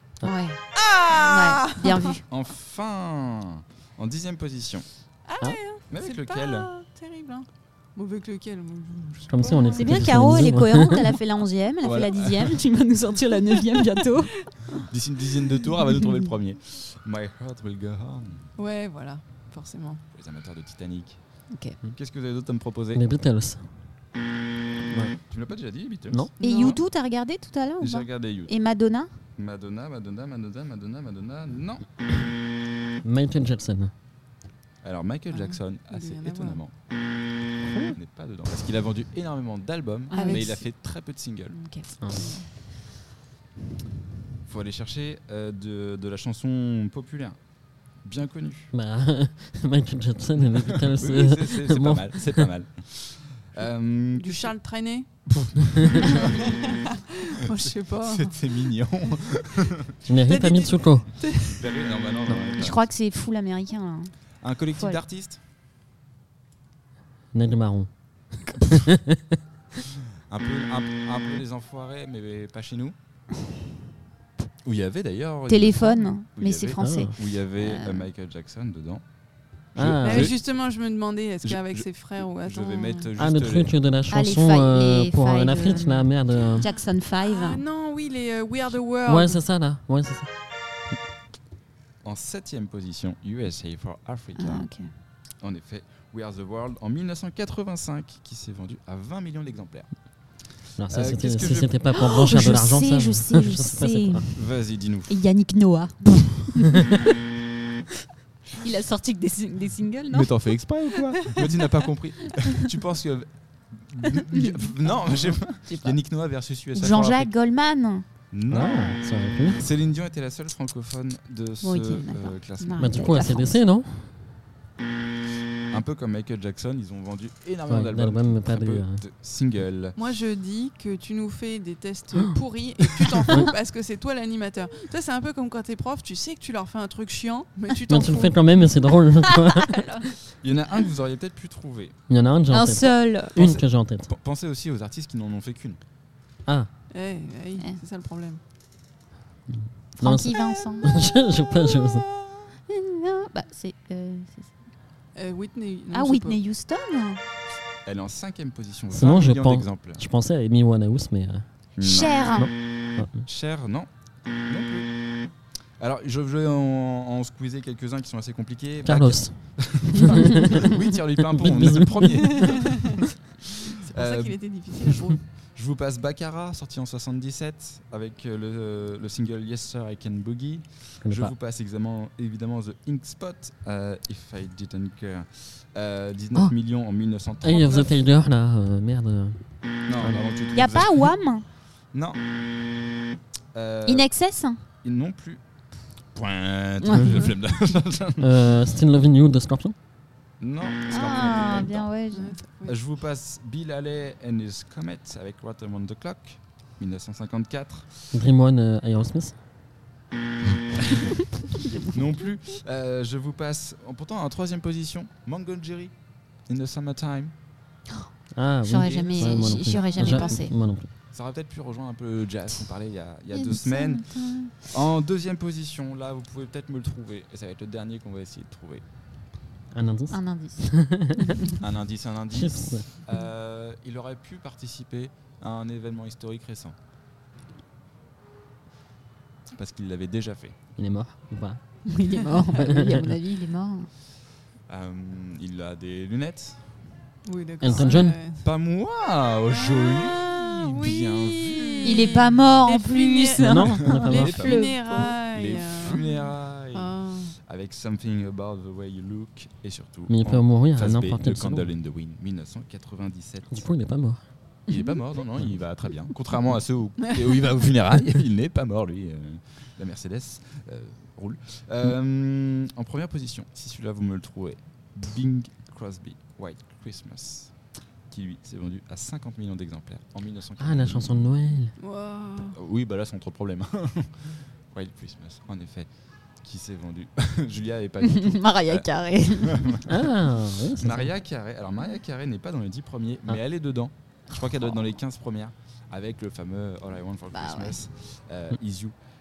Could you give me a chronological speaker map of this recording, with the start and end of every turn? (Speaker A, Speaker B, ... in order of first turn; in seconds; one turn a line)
Speaker A: 0.2-2.2
Speaker B: 0.7-2.2
Speaker C: 2.3-4.9
Speaker B: 5.2-10.5
Speaker C: 5.9-6.7
Speaker D: 9.3-11.1
Speaker A: 9.8-14.3
Speaker C: 11.8-12.6
Speaker C: 14.7-18.5
Speaker B: 18.6-20.0
Speaker C: 20.1-21.2
Speaker A: 21.5-21.8
Speaker C: 21.8-23.1
Speaker D: 22.9-23.7
Speaker D: 24.8-25.2
Speaker C: 25.3-26.8
Speaker B: 26.4-26.8
Speaker A: 26.4-29.1
Speaker C: 27.8-28.5
Speaker C: 29.4-31.9
Speaker D: 33.0-33.9
Speaker C: 34.8-36.7
Speaker B: 35.3-36.6
Speaker D: 37.6-38.0
Speaker C: 37.6-41.6
Speaker B: 40.1-40.5
Speaker A: 40.1-40.7
Speaker A: 41.5-42.5
Speaker D: 42.0-42.4
Speaker C: 44.5-47.4
Speaker C: 48.0-48.7
Speaker D: 48.7-52.5
Speaker C: 50.5-54.5
Speaker B: 54.1-55.1
Speaker C: 55.3-56.7
Speaker B: 56.0-58.4
Speaker C: 57.5-59.9
Speaker D: 60.0-61.1
Speaker B: 60.2-61.6
Speaker C: 61.4-62.8
Speaker A: 62.5-65.0
Speaker C: 64.4-65.4
Speaker D: 67.3-67.9
Speaker D: 68.4-69.4
Speaker C: 70.3-72.9
Speaker C: 74.6-79.0
Speaker A: 75.5-78.1
Speaker D: 76.8-77.1
Speaker C: 79.7-80.3
Speaker D: 79.8-80.3
Speaker B: 80.0-83.1
Speaker C: 81.4-83.7
Speaker D: 83.2-86.7
Speaker A: 84.1-87.6
Speaker B: 87.2-89.4
Speaker D: 89.0-90.3
Speaker C: 92.0-94.7
Speaker A: 94.3-94.9
Speaker C: 95.4-99.9
Speaker D: 100.8-104.3
Speaker C: 100.9-102.0
Speaker A: 101.9-104.4
Speaker C: 104.3-105.2
Speaker A: 105.1-107.0
Speaker A: 108.5-110.3
Speaker C: 110.1-117.3
Speaker A: 115.0-116.0
Speaker A: 116.7-118.0
Speaker C: 118.3-123.1
Speaker D: 118.5-119.7
Speaker A: 121.6-123.5
Speaker D: 122.8-124.1
Speaker C: 125.7-129.9
Speaker D: 127.7-129.0
Speaker B: 129.9-138.7
Speaker D: 137.9-139.8
Speaker C: 140.4-141.9
Speaker D: 142.1-144.1
Speaker A: 142.5-143.6
Speaker C: 143.4-145.8
Speaker B: 146.9-148.4
Speaker D: 149.5-152.1
Speaker A: 150.0-150.9
Speaker A: 152.7-154.5
Speaker B: 155.1-156.4
Speaker A: 155.9-157.2
Speaker C: 157.8-160.0
Speaker D: 158.9-161.5
Speaker C: 161.8-162.5
Speaker A: 161.8-162.5
Speaker D: 162.3-163.2
Speaker C: 163.1-163.9
Speaker C: 164.5-165.3
Speaker C: 165.8-175.0
Speaker D: 168.8-172.7
Speaker B: 172.3-172.9
Speaker B: 173.8-175.2
Speaker C: 175.5-187.9
Speaker D: 181.0-181.3
Speaker D: 187.4-190.2
Speaker C: 189.9-191.1
Speaker A: 190.5-191.4
Speaker C: 191.9-192.2
Speaker C: 193.5-194.1
Speaker A: 193.8-194.6
Speaker C: 194.8-195.4
Speaker C: 196.1-198.4
Speaker A: 196.8-197.2
Speaker D: 198.2-199.8
Speaker C: 200.4-201.9
Speaker A: 200.9-202.3
Speaker B: 202.1-202.8
Speaker C: 202.7-207.9
Speaker D: 208.1-209.3
Speaker C: 211.9-215.9
Speaker C: 216.5-217.3
Speaker D: 218.3-220.9
Speaker A: 218.6-220.5
Speaker C: 218.8-220.3
Speaker B: 219.7-220.3
Speaker C: 221.1-228.8
Speaker A: 223.3-224.7
Speaker D: 229.7-231.3
Speaker A: 230.1-231.5
Speaker C: 231.6-236.7
Speaker D: 232.3-232.9
Speaker C: 239.6-240.6
Speaker D: 240.8-241.6
Speaker A: 241.9-243.9
Speaker D: 242.5-243.1
Speaker C: 244.7-246.8
Speaker B: 247.2-248.5
Speaker D: 247.6-248.2
Speaker C: 247.6-252.2
Speaker B: 249.5-257.3
Speaker A: 251.8-255.2
Speaker D: 253.4-254.6
Speaker C: 253.9-263.6
Speaker D: 260.1-261.7
Speaker D: 263.5-264.2
Speaker C: 264.7-277.5
Speaker C: 278.1-281.2
Speaker D: 280.6-281.7
Speaker B: 281.8-282.6
Speaker C: 282.5-285.9
Speaker C: 286.4-289.9
Speaker A: 288.0-289.8
Speaker D: 289.9-291.1
Speaker C: 290.6-298.9
Speaker A: 297.3-297.7